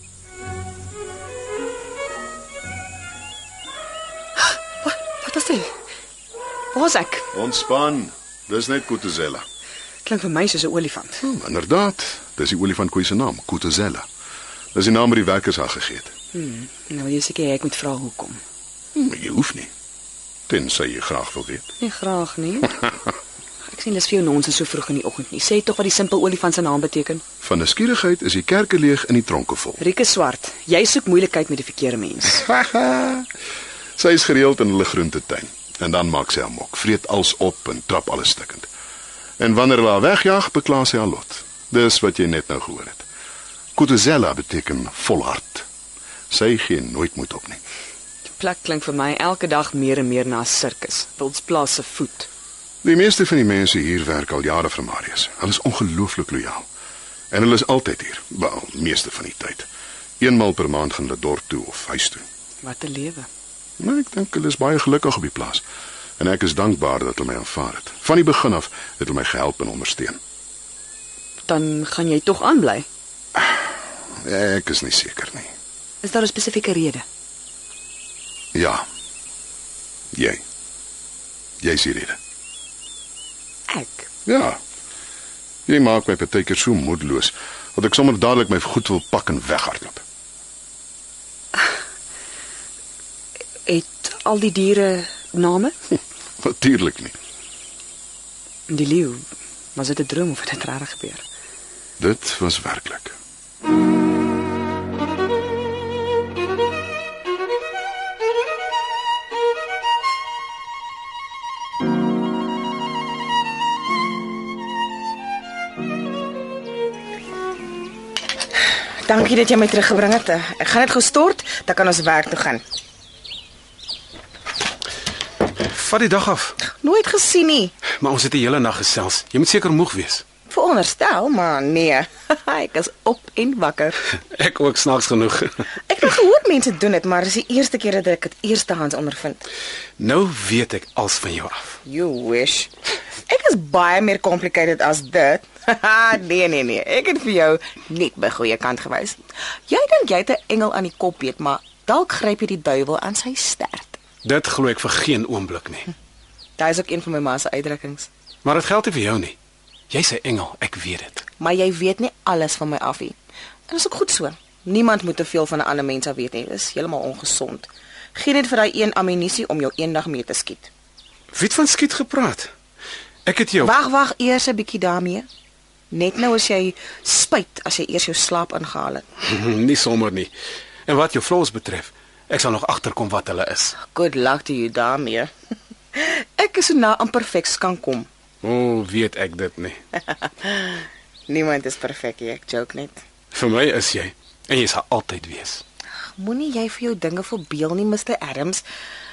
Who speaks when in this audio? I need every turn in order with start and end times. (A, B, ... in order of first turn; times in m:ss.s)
0:04.4-0:05.7 A
0:06.7-0:07.3 A
0:07.3-0:09.5 B
0:10.0-0:11.2 A
0:11.2-0:14.1 B
0:14.7-0:16.1 B
0:16.3-0:18.4 A
0:19.0-0:19.7 B
0:20.5-0:21.6 B
0:21.8-0:22.9 A
0:23.7-0:27.2 A
0:27.4-0:29.8 B
0:29.8-0:32.5 A
0:32.4-0:33.3 B
0:34.0-0:38.7 B
0:39.4-0:43.1 B
0:43.8-0:45.7 B
0:46.3-0:47.6 B
0:48.3-0:52.3 A
0:52.8-0:56.7 B
0:57.3-0:59.7 B
1:00.2-1:02.2 B
1:02.6-1:03.3 A
1:03.8-1:05.6 B
1:06.2-1:10.2 B
1:11.5-1:12.9 A
1:14.2-1:15.5 B
1:16.0-1:17.0 A
1:18.5-1:18.8 B
1:20.1-1:20.4 B
1:21.6-1:22.2 B
1:23.7-1:24.0 A
1:24.3-1:24.6 B
1:25.7-1:30.0 B
1:33.7-1:35.8 A
1:36.4-1:37.2 B
1:38.7-1:41.2 A
1:42.0-1:43.2 B
1:59.0-2:02.6 C
2:05.6-2:06.6 D
2:06.6-2:07.8 C
2:08.0-2:10.2 D
2:10.5-2:14.0 C
2:14.3-2:15.7 D
2:15.9-2:19.5 C
2:20.0-2:21.8 D
2:21.8-2:22.7 C
2:23.3-2:34.0 C
2:34.2-2:35.9 D
2:36.6-2:38.1 C
2:38.4-2:39.4 D
2:39.9-2:41.2 D
2:41.4-2:43.2 C
2:43.7-2:50.7 C
2:51.3-2:52.5 D
2:53.3-2:53.7 D
2:53.6-2:55.3 C
2:55.9-2:59.0 C
2:59.2-3:00.3 D
3:00.9-3:03.8 D
3:03.8-3:05.3 C
3:05.9-3:08.1 C
3:08.4-3:09.8 D
3:10.3-3:13.0 C
3:13.3-3:15.6 D
3:16.2-3:18.6 C